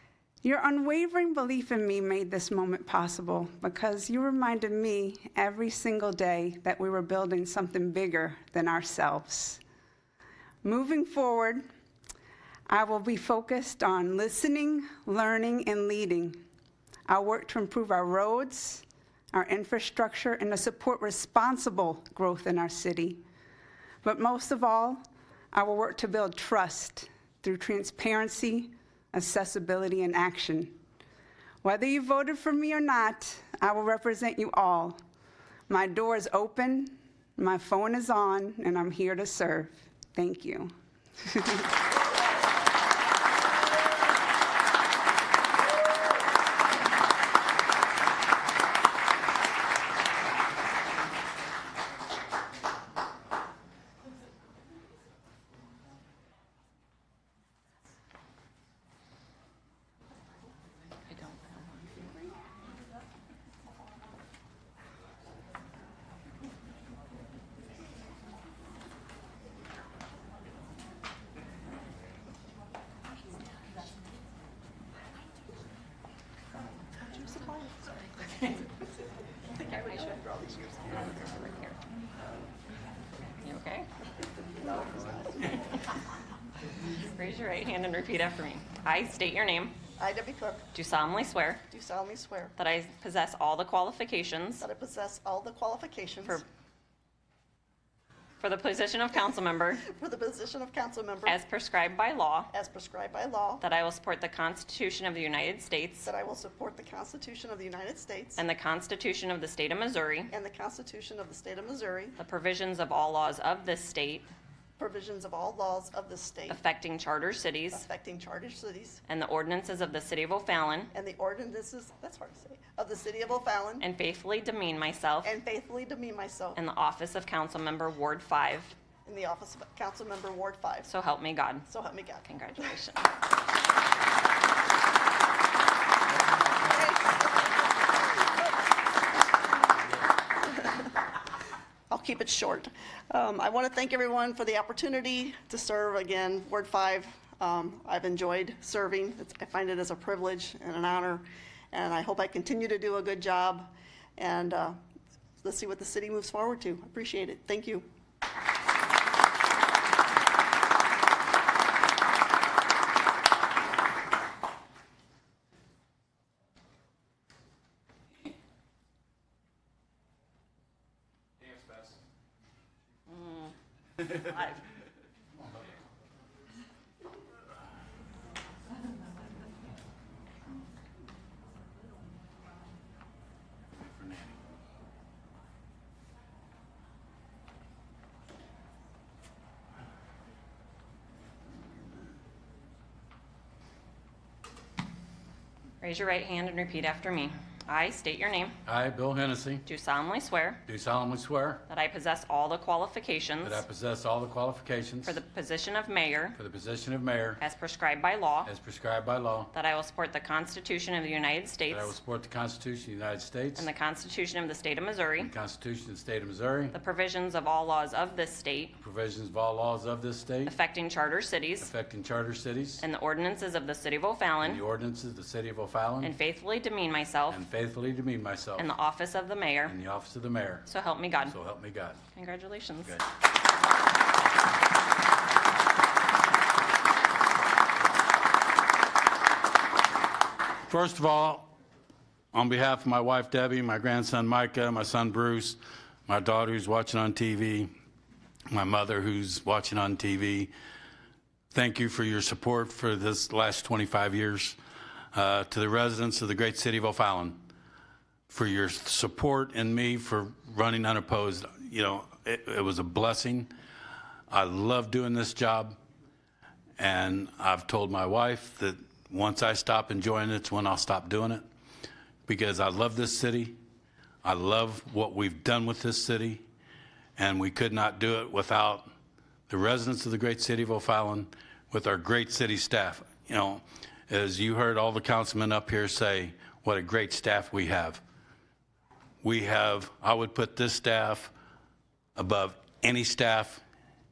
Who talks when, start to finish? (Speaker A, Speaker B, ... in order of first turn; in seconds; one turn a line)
Speaker A: 0.4-9.6
Speaker A: 10.6-11.7
Speaker A: 12.7-16.4
Speaker A: 17.1-23.2
Speaker A: 24.0-25.0
Speaker A: 25.5-30.8
Speaker A: 31.6-35.0
Speaker A: 35.7-40.7
Speaker A: 41.2-41.7
Speaker B: 61.1-62.1
Speaker C: 77.0-78.6
Speaker C: 79.5-81.3
Speaker B: 81.0-81.8
Speaker B: 83.4-83.9
Speaker C: 84.6-85.7
Speaker B: 87.1-89.8
Speaker C: 90.0-90.7
Speaker B: 90.7-91.6
Speaker C: 91.7-92.5
Speaker B: 92.6-94.7
Speaker C: 94.6-96.4
Speaker B: 98.4-99.8
Speaker C: 99.8-101.4
Speaker B: 101.3-102.5
Speaker C: 102.5-103.6
Speaker B: 103.6-106.1
Speaker C: 106.0-108.4
Speaker B: 108.4-110.3
Speaker C: 110.3-112.2
Speaker B: 112.2-114.3
Speaker C: 114.8-116.6
Speaker B: 116.5-117.9
Speaker C: 117.7-119.0
Speaker B: 119.1-120.9
Speaker C: 120.9-123.9
Speaker B: 123.8-125.3
Speaker C: 125.2-126.6
Speaker B: 126.6-128.8
Speaker C: 129.1-130.9
Speaker B: 130.9-131.7
Speaker C: 131.7-132.3
Speaker B: 132.2-133.1
Speaker C: 141.9-154.8
Speaker C: 155.4-157.9
Speaker B: 173.1-173.4
Speaker D: 183.7-184.4
Speaker B: 195.8-198.6
Speaker D: 198.7-199.6
Speaker B: 199.6-200.6
Speaker D: 200.7-201.7
Speaker B: 201.7-203.6
Speaker D: 203.4-205.2
Speaker B: 205.1-206.4
Speaker D: 206.4-207.4
Speaker B: 207.4-208.5
Speaker D: 208.5-209.5
Speaker B: 209.5-211.9
Speaker D: 211.7-213.7
Speaker B: 213.6-215.3
Speaker D: 215.2-216.8
Speaker B: 216.7-218.8
Speaker D: 218.8-220.5
Speaker B: 220.5-221.7
Speaker D: 221.6-222.8
Speaker B: 222.8-224.6
Speaker D: 224.4-226.1
Speaker B: 226.0-227.4
Speaker D: 227.3-228.7
Speaker B: 228.6-229.8
Speaker D: 229.7-230.7
Speaker B: 230.7-231.4
Speaker D: 231.3-232.0
Speaker B: 232.2-233.0
Speaker D: 240.7-241.5
Speaker D: 242.3-247.7
Speaker D: 248.5-250.5
Speaker D: 251.5-254.6
Speaker D: 255.1-257.4
Speaker D: 258.3-263.5
Speaker D: 264.3-265.8
Speaker D: 266.8-271.4
Speaker D: 272.3-273.6
Speaker D: 274.2-276.4
Speaker D: 277.2-278.9
Speaker D: 279.5-288.0
Speaker D: 289.2-291.3
Speaker D: 292.2-293.6